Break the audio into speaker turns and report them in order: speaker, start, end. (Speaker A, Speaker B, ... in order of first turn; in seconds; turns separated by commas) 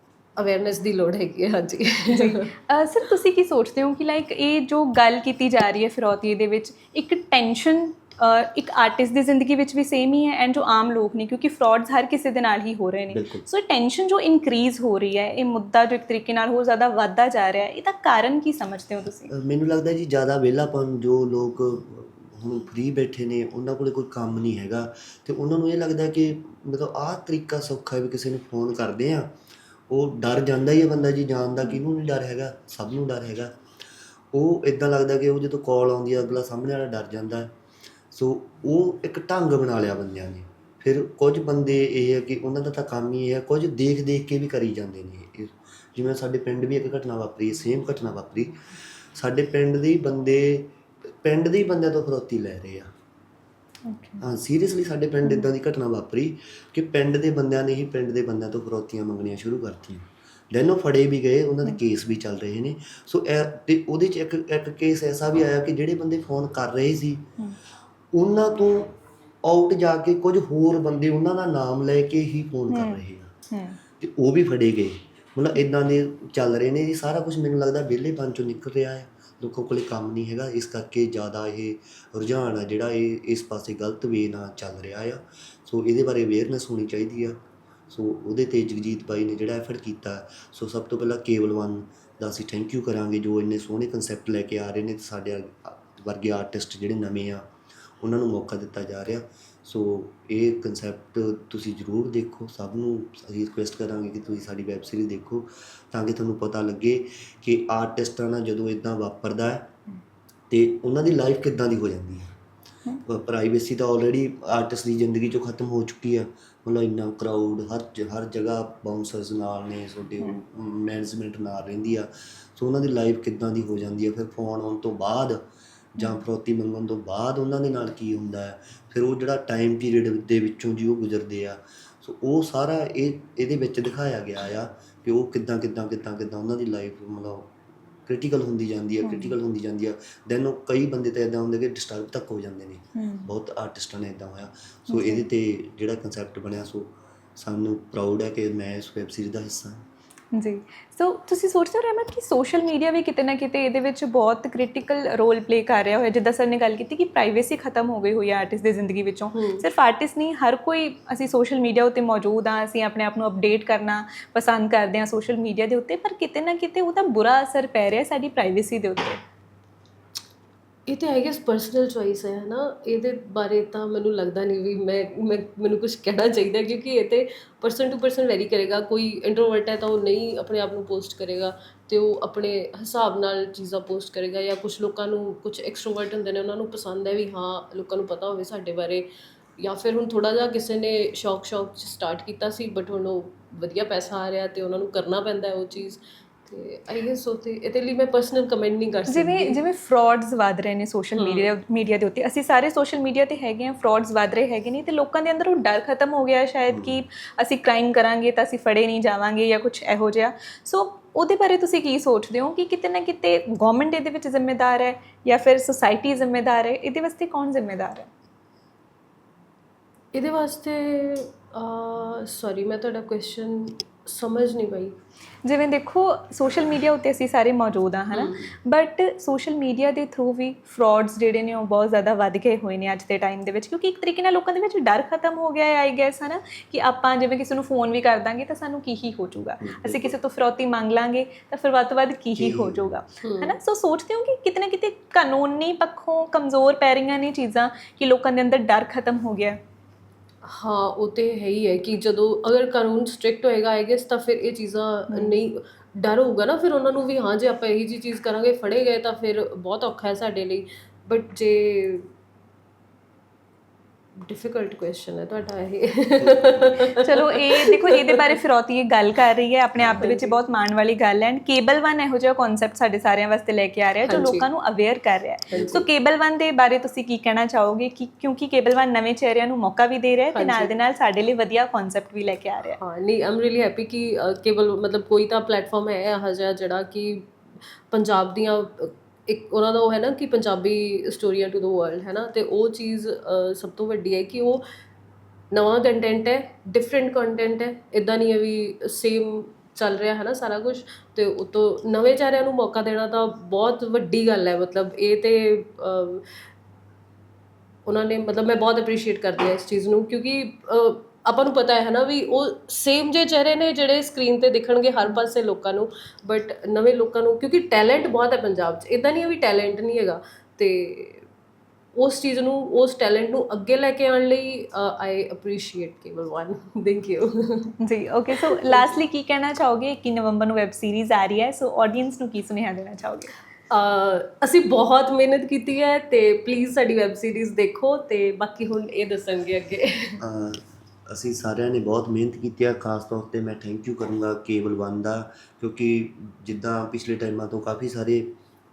Speaker A: 0.4-2.5, Speaker B: 2.1-19.3, Speaker C: 13.1-13.4, Speaker C: 19.3-29.3, Speaker C: 29.9-33.5, Speaker C: 34.3-37.5, Speaker C: 38.1-48.5, Speaker C: 49.1-52.9, Speaker B: 53.9-54.2, Speaker C: 54.2-67.3, Speaker C: 68.1-73.3, Speaker B: 72.7-73.8, Speaker C: 74.0-97.5, Speaker C: 98.0-109.7, Speaker C: 110.5-112.3, Speaker C: 113.0-125.5, Speaker C: 126.0-149.8, Speaker B: 139.0-139.3, Speaker B: 142.9-143.3, Speaker B: 144.9-145.2, Speaker B: 150.3-169.2, Speaker A: 159.3-159.7, Speaker A: 170.9-189.1, Speaker A: 189.6-199.6, Speaker B: 199.1-218.1, Speaker A: 201.2-201.5, Speaker C: 206.7-207.0, Speaker A: 220.1-224.9, Speaker B: 225.4-249.6, Speaker A: 228.1-228.5, Speaker C: 239.6-240.2, Speaker C: 242.3-242.9, Speaker A: 243.2-243.6, Speaker A: 250.4-262.1, Speaker B: 255.1-255.4, Speaker A: 264.2-268.3, Speaker C: 266.2-266.9, Speaker B: 267.0-282.8, Speaker A: 269.9-270.4, Speaker A: 274.1-274.5, Speaker C: 275.5-275.8, Speaker A: 275.5-275.9, Speaker A: 280.3-280.7, Speaker A: 282.8-287.3, Speaker A: 287.9-294.6, Speaker A: 295.5-306.2, Speaker A: 307.9-321.2, Speaker A: 321.9-327.7, Speaker B: 327.8-333.3, Speaker A: 328.3-329.0, Speaker A: 333.7-340.2, Speaker C: 340.2-348.3